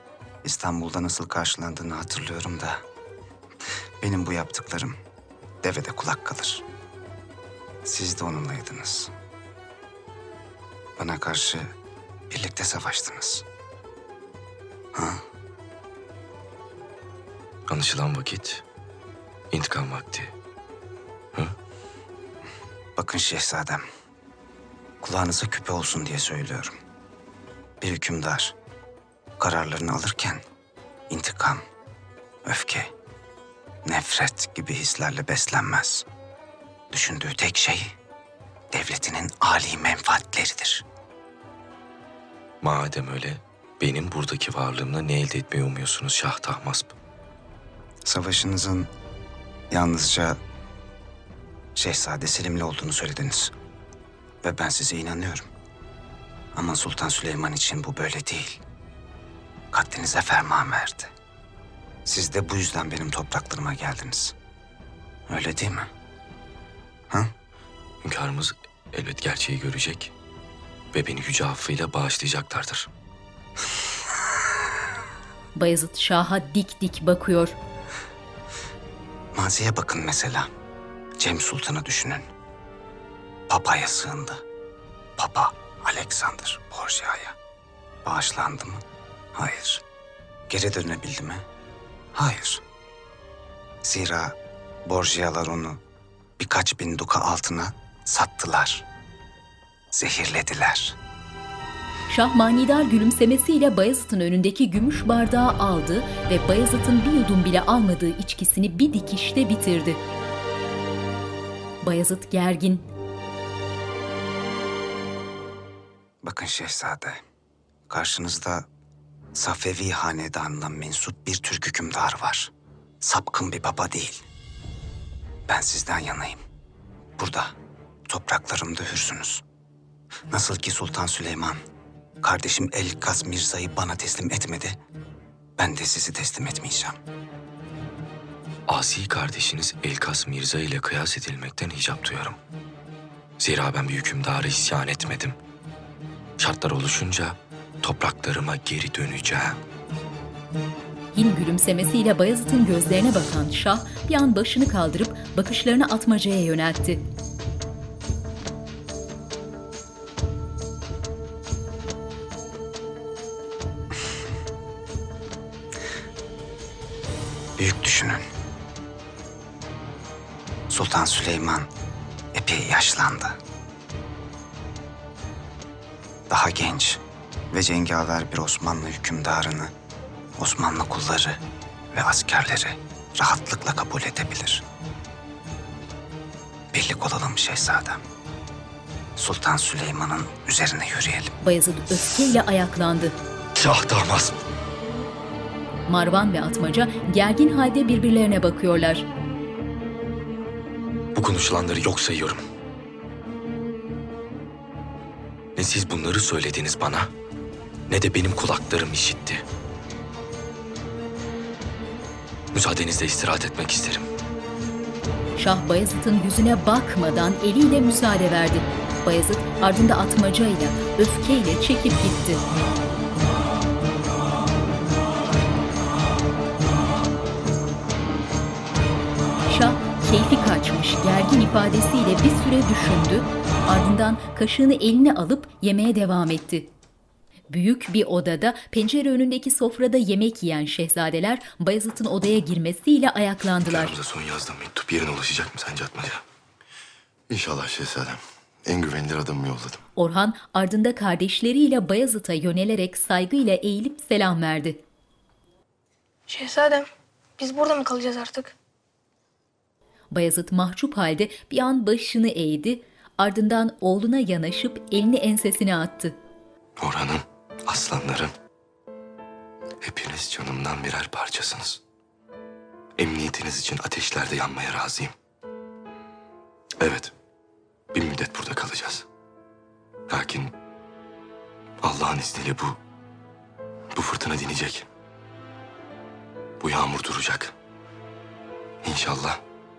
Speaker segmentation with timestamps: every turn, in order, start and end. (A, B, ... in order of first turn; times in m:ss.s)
0:00.4-0:02.8 A
0:04.0-0:04.9 A
0:05.6-0:06.6 A
0:07.9-0:09.1 A
0:11.0-0:11.7 A
0:12.3-0:13.4 A
0:17.7-0:18.6 B
0:19.5-0:20.3 B
0:23.0-0:23.8 A
0:25.0-0:26.7 A
0:27.8-0:28.5 A
0:29.4-0:30.4 A
0:31.1-0:31.6 A
0:32.5-0:32.9 A
0:33.9-0:36.0 A
0:36.9-0:37.9 A
0:38.7-0:40.8 A
0:42.6-0:46.9 B
0:48.0-0:48.9 A
0:49.7-0:50.4 A
0:51.8-0:53.5 A
0:54.4-0:55.4 A
0:56.6-0:58.6 A
0:59.7-1:01.1 A
1:02.1-1:04.3 A
1:05.3-1:05.9 A
1:08.0-1:10.1 B
1:10.9-1:12.9 B
1:15.6-1:17.6 C
1:19.4-1:20.4 A
1:21.2-1:22.2 A
1:23.5-1:24.4 A
1:25.2-1:27.3 A
1:28.1-1:28.8 A
1:29.4-1:29.8 A
1:30.5-1:31.4 A
1:32.2-1:32.6 A
1:33.8-1:34.3 A
1:34.9-1:35.8 A
1:36.4-1:38.8 A
1:39.9-1:40.9 A
1:42.1-1:50.0 C
1:51.8-1:52.8 C
1:56.2-1:57.2 A
1:57.9-1:58.6 A
1:59.4-2:02.5 A
2:03.0-2:04.2 A
2:05.5-2:06.4 A
2:07.2-2:07.5 A
2:08.1-2:09.4 A
2:10.3-2:11.6 A
2:12.2-2:14.8 A
2:15.6-2:16.9 A
2:18.7-2:22.4 B
2:23.4-2:25.4 B
2:26.4-2:29.6 B
2:31.1-2:37.0 C
2:47.6-2:48.2 A
2:50.7-2:51.7 A
2:52.4-2:53.3 A
2:56.3-2:57.0 A
2:57.5-2:59.7 A
3:00.4-3:01.4 A
3:01.9-3:04.6 A
3:06.7-3:08.0 A
3:09.2-3:11.3 A
3:11.4-3:13.2 C
3:13.6-3:14.4 B
3:15.9-3:19.1 C
3:21.1-3:22.4 B
3:25.6-3:27.1 B
3:27.9-3:29.4 B
3:32.5-3:34.0 B
3:35.4-3:42.4 C
3:49.5-3:56.7 C
3:57.5-4:04.0 C
4:03.6-4:06.2 B
4:07.3-4:09.8 D
4:10.0-4:14.8 C
4:16.3-4:18.5 E
4:20.1-4:26.2 C
4:26.8-4:28.3 B
4:29.8-4:31.8 B
4:33.0-4:35.1 B
4:36.8-4:37.1 B
4:37.9-4:39.0 B
4:40.1-4:40.5 B
4:41.8-4:42.8 B
4:43.9-4:44.9 B
4:46.6-4:47.5 B
4:48.8-4:49.4 B